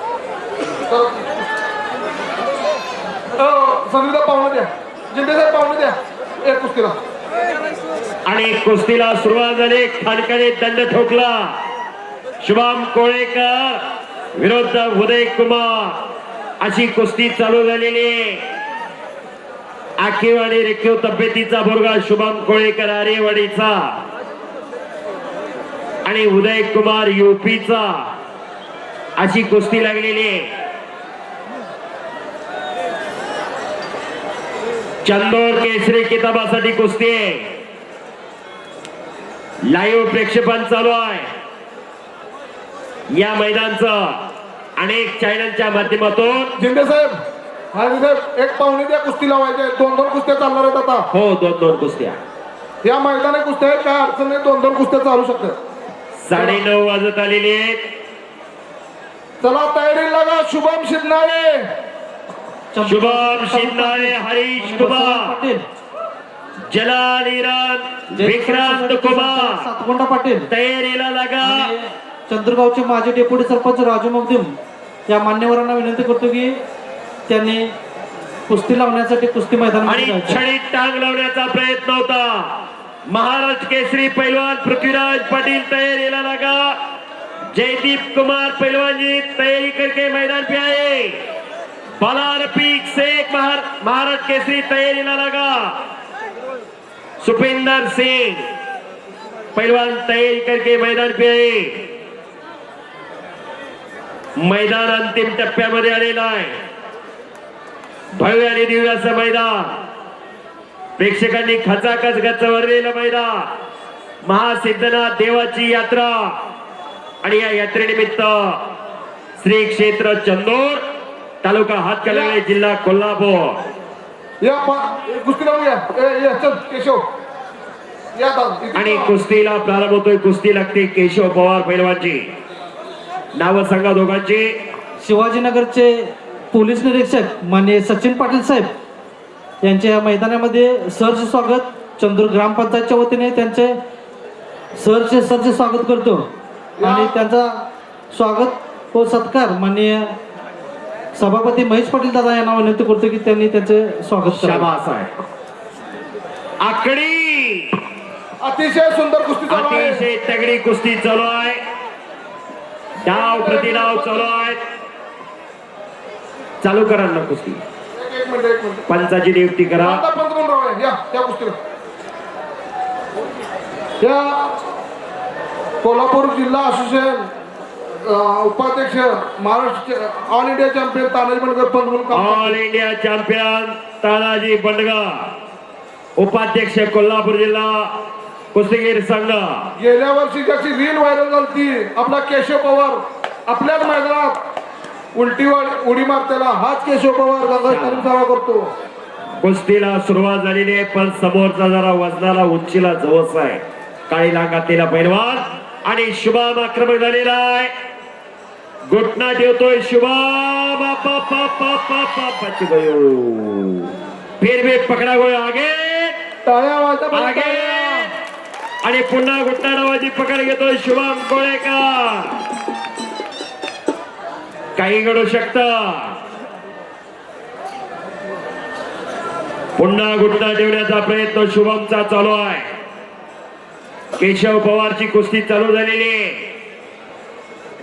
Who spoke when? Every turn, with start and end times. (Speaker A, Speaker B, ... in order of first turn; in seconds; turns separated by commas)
Speaker A: 0.9-1.5, Speaker A: 3.4-7.0, Speaker B: 8.2-11.6, Speaker B: 12.4-13.8, Speaker B: 14.3-16.0, Speaker B: 16.6-18.4, Speaker B: 20.0-24.0, Speaker B: 26.1-28.1, Speaker B: 29.2-30.5, Speaker B: 35.0-37.5, Speaker B: 39.6-41.2, Speaker B: 43.1-44.2, Speaker B: 44.8-46.5, Speaker A: 46.6-47.1, Speaker A: 47.7-51.1, Speaker B: 51.1-52.2, Speaker A: 52.8-55.6, Speaker B: 56.2-57.8, Speaker A: 56.3-56.6, Speaker A: 59.4-61.6, Speaker C: 62.7-65.6, Speaker B: 62.8-65.2, Speaker B: 66.7-69.6, Speaker C: 68.2-70.5, Speaker B: 70.5-71.7, Speaker C: 71.4-74.5, Speaker C: 75.1-76.6, Speaker C: 77.3-77.6, Speaker C: 78.5-80.4, Speaker B: 79.8-82.5, Speaker B: 83.1-86.7, Speaker B: 87.5-91.2, Speaker B: 92.0-95.7, Speaker B: 97.2-98.4, Speaker B: 99.5-101.9, Speaker B: 104.4-106.5, Speaker B: 108.2-109.8, Speaker B: 111.0-113.5, Speaker B: 114.2-116.3, Speaker B: 117.2-118.6, Speaker B: 119.4-120.8, Speaker B: 121.4-123.6, Speaker A: 122.1-122.4, Speaker A: 124.4-127.0, Speaker A: 128.1-129.1, Speaker B: 128.7-132.2, Speaker B: 133.3-134.5, Speaker C: 135.0-138.7, Speaker C: 139.6-143.8, Speaker C: 144.8-146.3, Speaker A: 146.8-147.2, Speaker C: 146.8-150.1, Speaker C: 151.1-154.7, Speaker B: 154.3-155.1, Speaker B: 156.6-157.8, Speaker A: 158.4-160.0, Speaker B: 159.5-161.6, Speaker A: 163.0-164.5, Speaker B: 163.0-164.6, Speaker B: 166.6-167.6, Speaker A: 167.9-168.9, Speaker B: 168.9-170.0, Speaker A: 169.8-171.6, Speaker A: 174.0-174.4, Speaker A: 175.8-177.3, Speaker A: 178.0-182.6, Speaker B: 182.1-185.3, Speaker B: 186.2-187.9, Speaker B: 188.5-189.7, Speaker A: 189.8-194.4, Speaker A: 195.2-198.7, Speaker B: 197.7-198.1, Speaker B: 199.4-207.7, Speaker B: 208.9-216.2, Speaker A: 216.4-218.1, Speaker B: 217.1-218.1, Speaker B: 218.8-222.4, Speaker B: 224.8-226.1, Speaker B: 229.8-232.6, Speaker B: 234.2-236.5